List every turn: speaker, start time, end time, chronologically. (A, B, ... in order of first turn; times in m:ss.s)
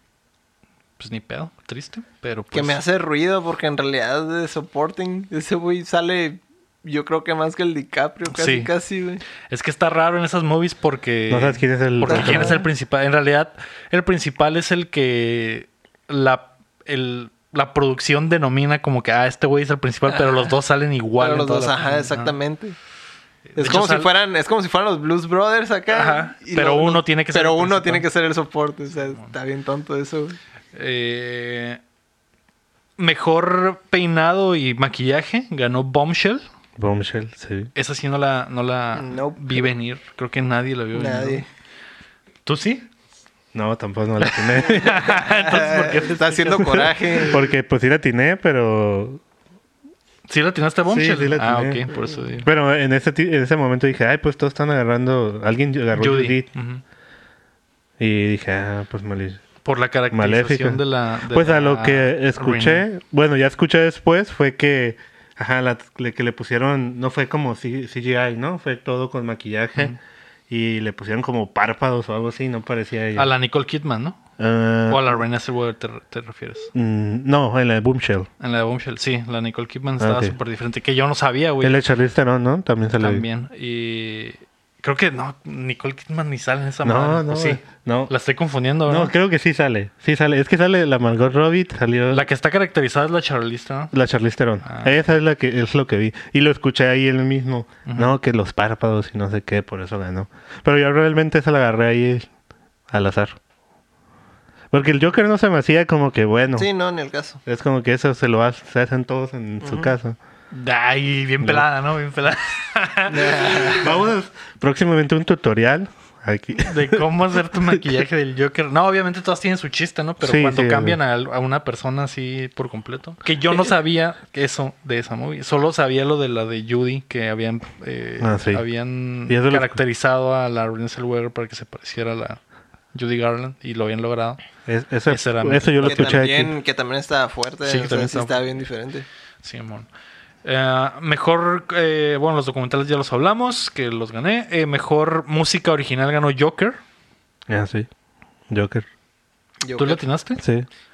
0:01.0-0:02.8 A
0:02.5-0:09.2 B
0:08.3-0:08.7 A
0:09.4-0:22.3 A
0:11.3-0:12.6 C
0:12.1-0:12.6 B
0:21.2-0:22.8 B
0:23.5-0:24.1 A
0:23.6-0:30.4 B
0:25.9-0:28.0 A
0:30.7-0:31.8 A
0:33.0-0:36.4 A
0:36.8-0:37.7 C
0:37.7-0:41.4 A
0:39.0-0:39.7 B
0:40.9-0:41.5 B
0:42.4-0:42.9 A
0:43.5-0:45.0 C
0:44.2-0:47.3 A
0:44.7-0:47.4 B
0:47.3-0:49.2 C
0:50.3-0:52.5 A
0:50.9-0:56.5 C
0:55.9-0:56.8 A
0:58.0-0:59.4 C
0:59.6-1:02.8 A
1:00.1-1:10.0 C
1:10.5-1:13.3 C
1:13.1-1:14.2 A
1:14.4-1:15.2 C
1:14.9-1:16.7 A
1:16.7-1:18.3 C
1:18.4-1:21.8 A
1:20.0-1:20.3 C
1:21.6-1:23.2 C
1:23.0-1:29.1 A
1:26.8-1:28.1 C
1:28.9-1:32.2 C
1:32.1-1:33.9 A
1:33.9-1:42.3 C
1:34.6-1:34.9 A
1:37.8-1:38.1 A
1:42.9-1:43.4 C
1:44.7-1:46.7 C
1:46.6-1:47.4 B
1:47.4-1:50.2 C
1:49.6-1:49.9 B
1:50.5-1:53.8 A
1:51.4-1:51.6 C
1:53.1-1:53.9 B
1:53.8-1:58.0 C
1:56.6-2:12.4 A
2:00.2-2:01.0 C
2:08.2-2:08.6 C
2:09.3-2:09.8 C
2:12.9-2:14.4 A
2:14.6-2:16.5 C
2:15.1-2:16.2 A
2:15.8-2:19.0 B
2:17.6-2:18.4 A
2:19.4-2:19.9 A
2:20.4-2:26.8 A
2:27.5-2:27.9 C
2:28.5-2:28.8 C
2:29.6-2:30.0 B
2:29.8-2:30.4 A
2:30.4-2:30.7 C